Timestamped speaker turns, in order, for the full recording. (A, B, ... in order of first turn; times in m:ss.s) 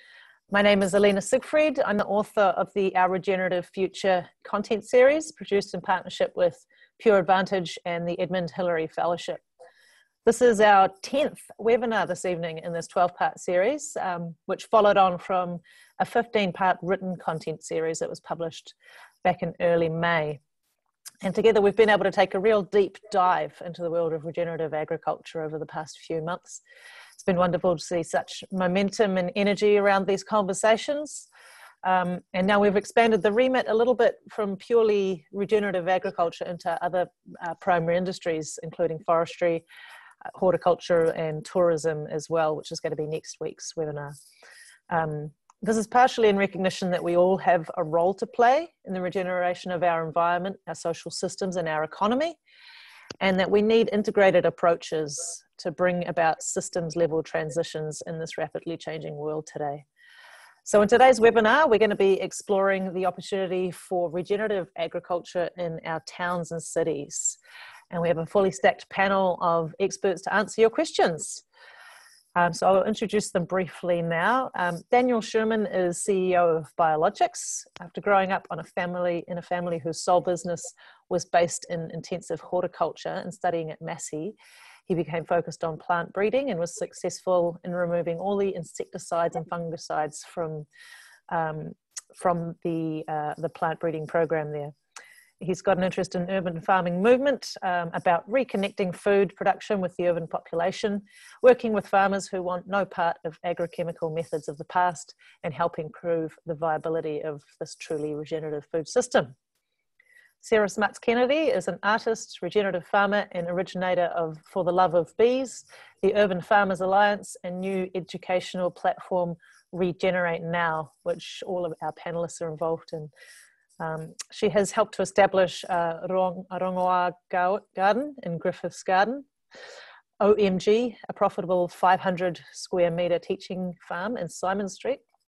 0:00.5-0:09.4 A
0:10.2-0:20.4 A
0:21.2-0:26.6 A
0:27.2-0:31.3 A
0:31.8-0:39.6 A
0:40.4-0:44.2 A
0:44.9-0:52.4 A
0:53.2-0:59.8 A
1:00.7-1:07.4 A
1:07.9-1:11.4 A
1:12.4-1:24.4 A
1:24.9-1:30.7 A
1:31.3-1:34.7 A
1:35.4-1:49.4 A
1:50.4-2:03.1 A
2:03.8-2:09.3 A
2:10.2-2:15.0 A